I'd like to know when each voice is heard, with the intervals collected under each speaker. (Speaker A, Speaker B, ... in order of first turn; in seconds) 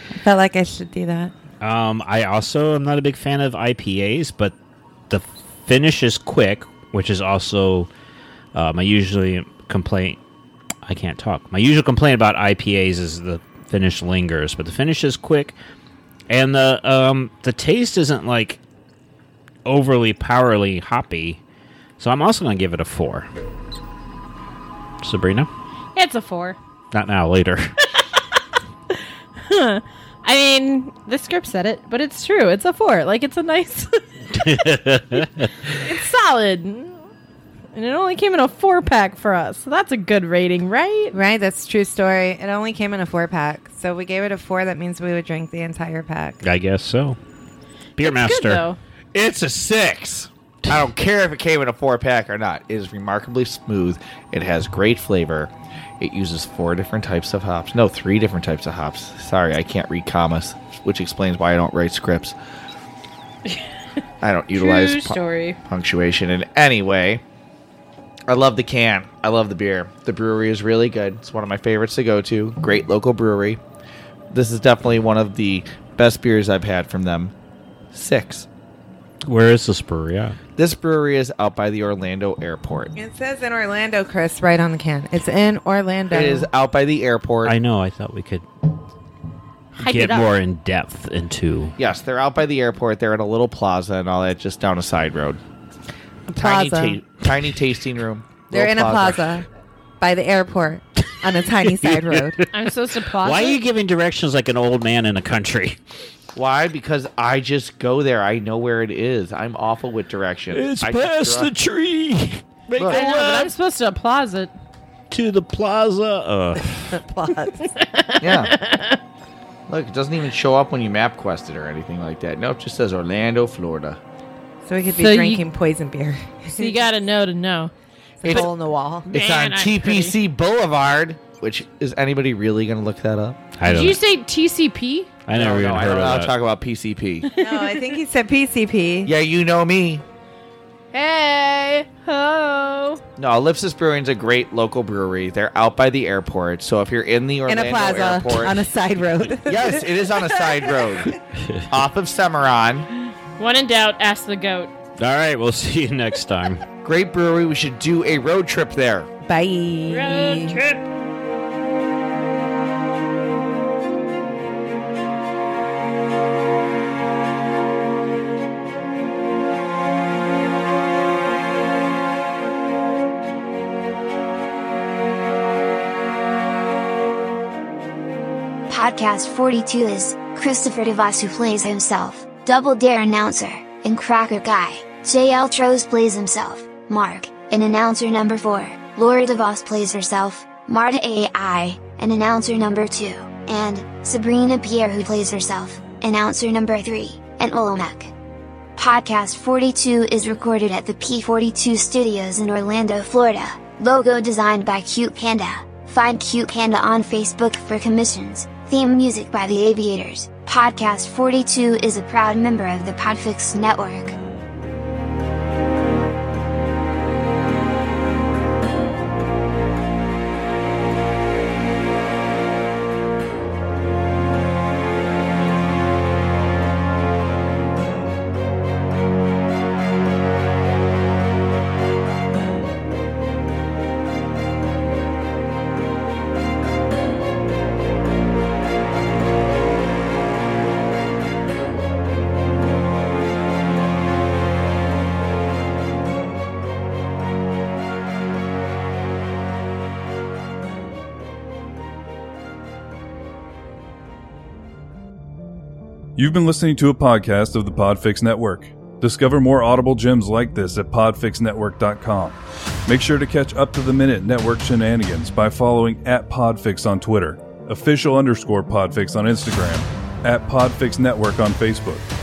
Speaker A: 0.2-1.3, 41.1-46.4, 83.0-86.5, 96.3-97.0, 98.5-99.5, 100.0-102.4, 116.8-117.7, 124.7-126.9, 128.2-129.1, 137.3-139.1, 147.5-149.9, 159.2-160.6
Speaker B: 1.6-4.5, 5.1-7.9, 8.5-10.2, 10.8-15.6, 16.3-18.6, 19.6-21.4, 22.0-23.3, 25.0-25.5, 26.9-27.7, 34.4-35.5, 46.4-47.2, 48.0-48.7, 79.3-80.4, 87.5-88.5, 89.8-91.8, 101.8-105.8, 110.5-113.5, 115.1-117.0, 133.6-134.0, 135.2-136.3, 155.0-156.6
Speaker C: 25.9-26.6, 29.4-34.5, 35.8-37.0, 37.7-41.1, 48.0-48.8, 64.5-65.6, 90.0-90.2, 102.5-103.6, 112.9-114.5, 117.8-119.0, 124.9-125.4, 126.5-127.7, 129.1-130.2, 133.6-135.2, 137.4-137.9, 140.9-143.0, 153.4-154.7, 159.9-160.8
Speaker D: 49.1-62.4, 64.2-67.2, 68.3-73.6, 74.3-77.3, 77.9-78.5, 80.6-82.9, 86.1-87.5, 91.8-95.4, 96.4-99.3, 106.3-111.5, 112.8-113.0, 118.2-118.5, 119.7-124.0, 129.1-133.5, 135.3-137.3, 139.1-140.0, 143.2-148.6, 149.5-151.2, 151.7-152.9, 156.8-159.1
Speaker E: 178.7-198.1, 198.8-214.2
Speaker F: 256.2-272.1